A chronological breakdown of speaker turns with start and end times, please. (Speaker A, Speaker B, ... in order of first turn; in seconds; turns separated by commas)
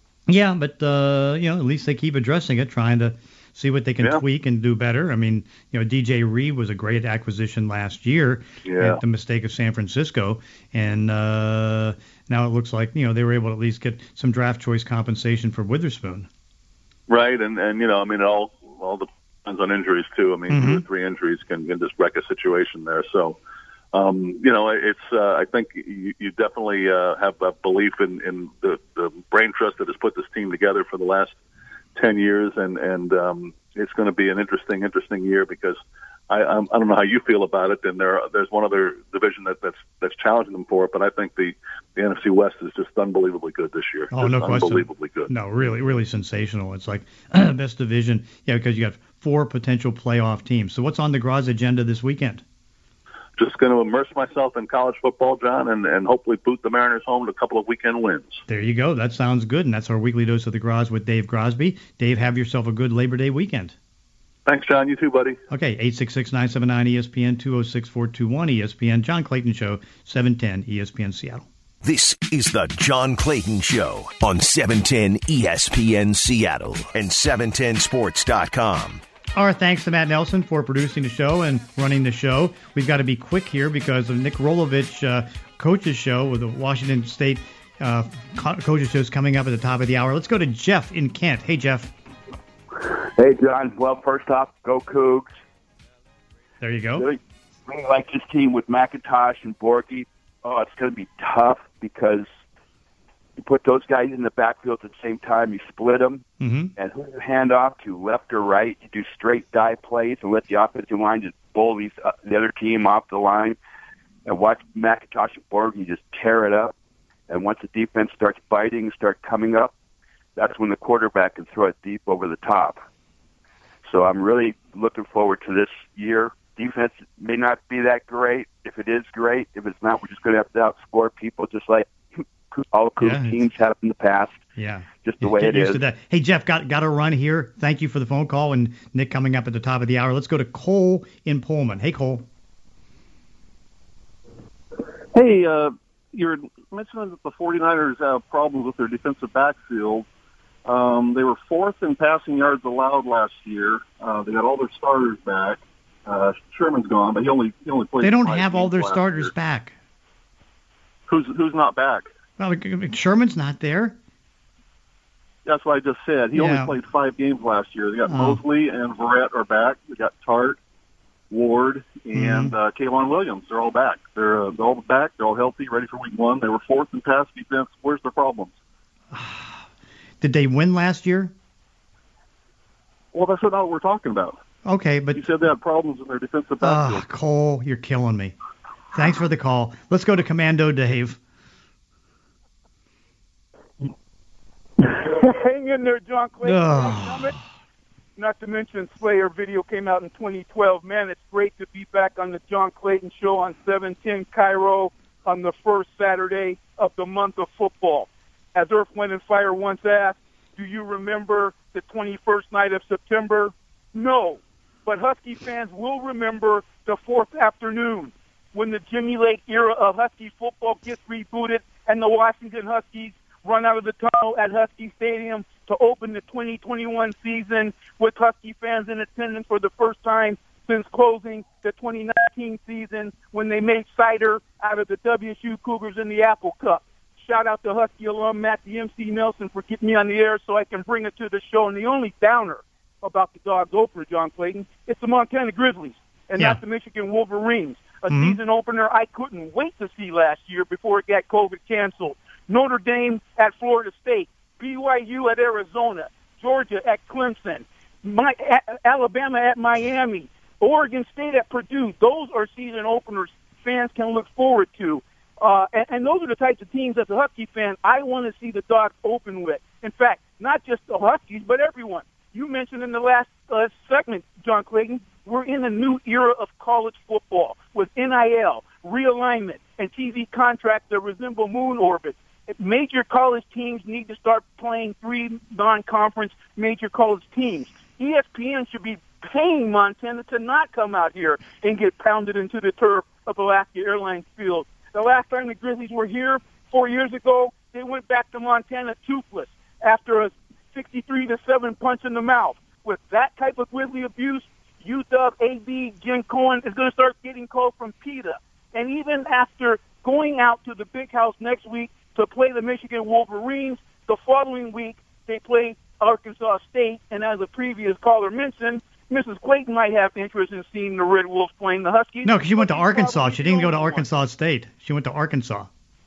Speaker A: 0.3-16.3, Speaker B: 8.6-9.0, Speaker B: 17.1-23.4, Speaker A: 20.5-20.8, Speaker B: 23.9-31.4, Speaker B: 31.9-45.3, Speaker A: 44.1-52.4, Speaker B: 53.4-58.4, Speaker A: 58.5-63.8, Speaker B: 64.5-65.4, Speaker A: 65.5-71.5, Speaker C: 71.8-79.0, Speaker A: 79.3-91.9, Speaker D: 93.2-95.3, Speaker A: 96.6-97.1, Speaker D: 97.0-102.3, Speaker D: 103.4-106.2, Speaker A: 106.4-106.7, Speaker D: 106.8-113.6, Speaker D: 114.2-116.7, Speaker D: 117.3-119.7, Speaker D: 120.4-122.8, Speaker D: 123.9-131.9, Speaker D: 132.5-134.4, Speaker A: 133.0-133.4, Speaker A: 134.6-142.2, Speaker D: 135.0-135.8, Speaker E: 145.1-150.1, Speaker E: 150.7-159.3, Speaker A: 158.0-159.8, Speaker E: 161.1-162.1, Speaker A: 162.4-164.0, Speaker E: 165.4-170.6, Speaker A: 166.3-166.8, Speaker A: 168.1-168.4, Speaker E: 171.3-178.5, Speaker A: 172.1-172.5, Speaker A: 179.1-179.6, Speaker A: 180.2-181.3, Speaker E: 183.1-184.4, Speaker A: 184.7-185.3, Speaker E: 185.1-187.1, Speaker A: 186.6-188.3, Speaker A: 188.9-191.2, Speaker F: 194.8-197.4, Speaker A: 196.4-197.3, Speaker F: 198.2-324.1, Speaker A: 248.1-248.4, Speaker A: 322.2-325.7